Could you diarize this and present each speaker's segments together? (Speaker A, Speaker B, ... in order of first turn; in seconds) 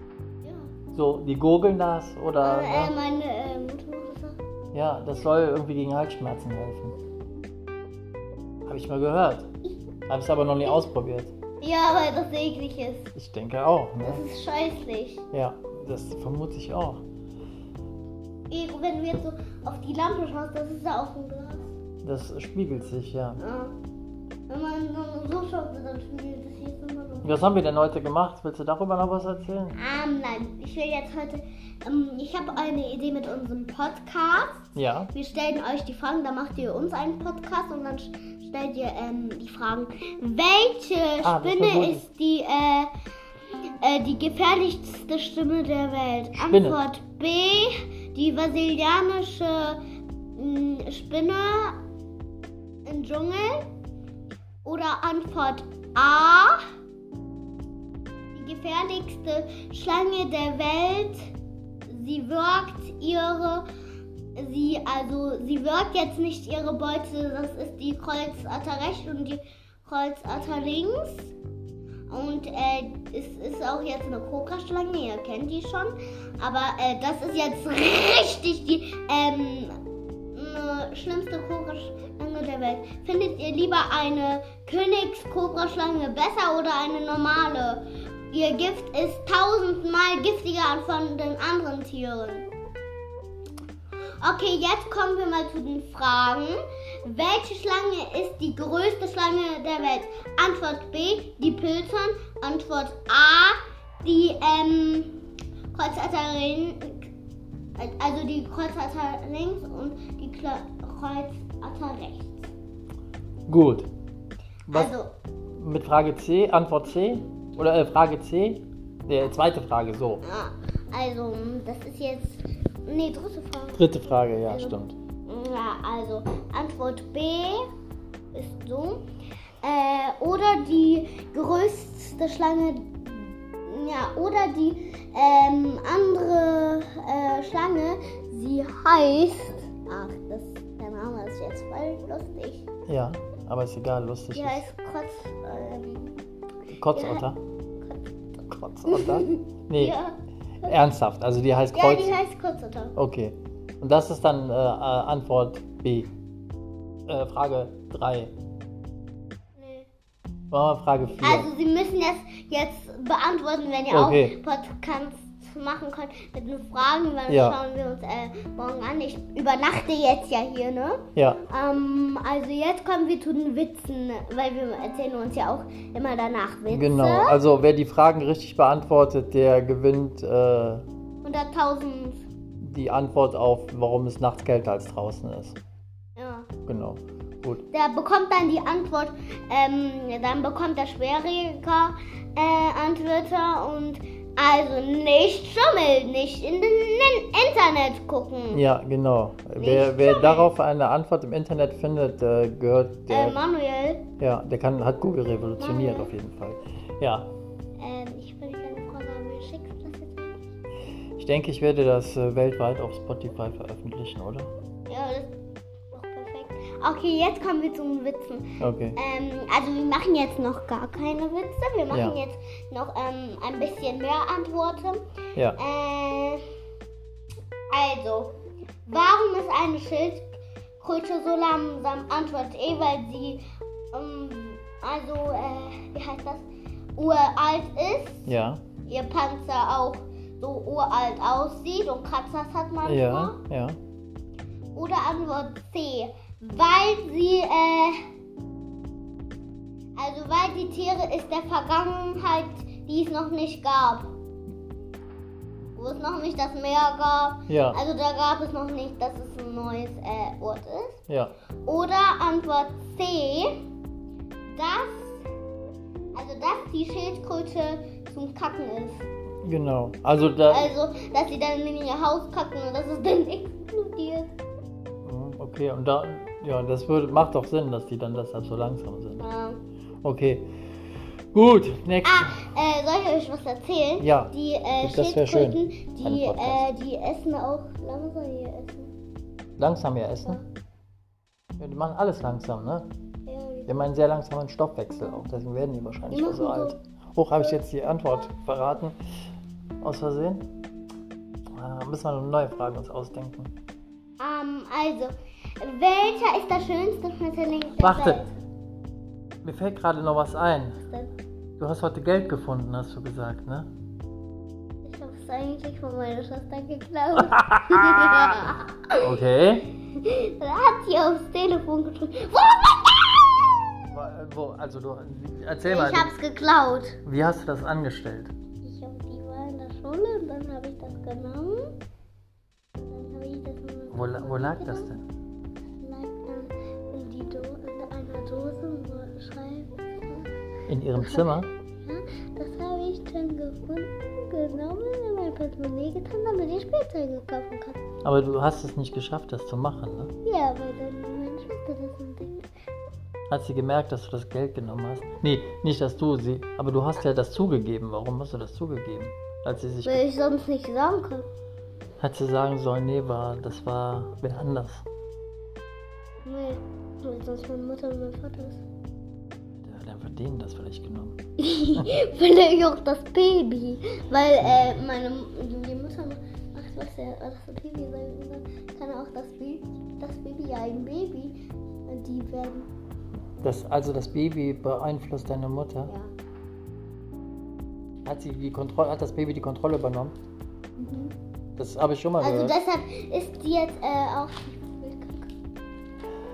Speaker A: 0.4-0.7, 2.4-4.4, 11.6-13.1, 14.0-15.2, 18.5-21.8, 23.4-23.7, 24.5-27.4, 29.8-42.9, 43.8-49.8, 50.4-51.8, 52.9-53.7, 54.6-56.6, 58.3-61.3, 61.9-63.6, 64.3-71.3, 72.1-79.8, 80.3-92.5, 94.2-105.2, 105.7-107.1, 107.8-112.5, 114.7-115.1, 120.2-123.8, 124.4-127.6, 128.3-129.1, 129.6-142.7, 144.3-146.2, 146.9-147.2, 147.8-150.2, 151.7-152.9, 159.6-159.9, 161.2-177.4, 181.2-182.2, 186.2-186.5, 187.7-198.6, 199.6-200.6, 203.1-204.0, 205.6-206.1, 207.8-210.4, 214.9-215.3, 215.9-225.0, 225.6-226.4, 227.7-228.3, 228.9-230.3, 230.8-233.4, 233.9-236.4, 237.0-238.3, 238.9-243.4, 244.8-248.0, 250.0-254.1, 255.8-261.0, 261.6-263.5, 264.5-265.2, 266.1-269.1, 270.5-274.3, 279.2-279.6, 282.0-288.9, 293.3-293.7, 296.1-296.8, 304.2-308.3, 314.8-319.0, 320.0-323.6, 325.7-327.0, 328.6-331.7, 332.8-334.9, 335.8-340.3, 341.8-347.8, 350.2-352.4, 359.9-361.3, 366.2-368.6, 371.4-382.7, 385.9-386.1, 390.8-391.1, 392.2-395.3
Speaker B: 0.9-2.9, 4.7-6.9, 8.7-9.5, 10.1-11.3, 13.2-14.2, 15.3-17.0, 22.0-23.4, 27.2-29.8, 34.8-35.1, 41.2-42.1, 46.5-46.8, 113.5-113.9, 115.5-120.2, 123.7-125.0, 142.9-144.6, 146.7-147.4, 148.5-150.0, 150.6-152.2, 153.0-156.1, 157.1-158.3, 160.5-161.5, 163.9-164.4, 167.3-167.6, 171.2-171.4, 176.7-180.8, 182.6-185.6, 186.7-187.7, 198.5-203.4, 204.2-207.3, 211.2-214.5, 218.6-219.0, 238.3-238.6, 242.8-243.8, 257.5-257.8, 261.1-261.3, 269.4-270.7, 275.1-279.2, 280.0-280.5, 281.3-282.4, 284.0-286.6, 289.6-290.4, 291.6-292.9, 293.7-299.0, 299.8-300.5, 301.5-303.5, 307.8-308.3, 309.4-310.8, 311.6-313.7, 317.2-318.3, 319.0-319.6, 323.9-326.1, 327.1-328.3, 333.9-335.1, 340.7-341.5, 348.0-350.1, 353.3-360.1, 362.0-364.8, 369.6-371.2, 374.4-374.8, 383.4-385.9, 388.1-390.1, 391.6-392.6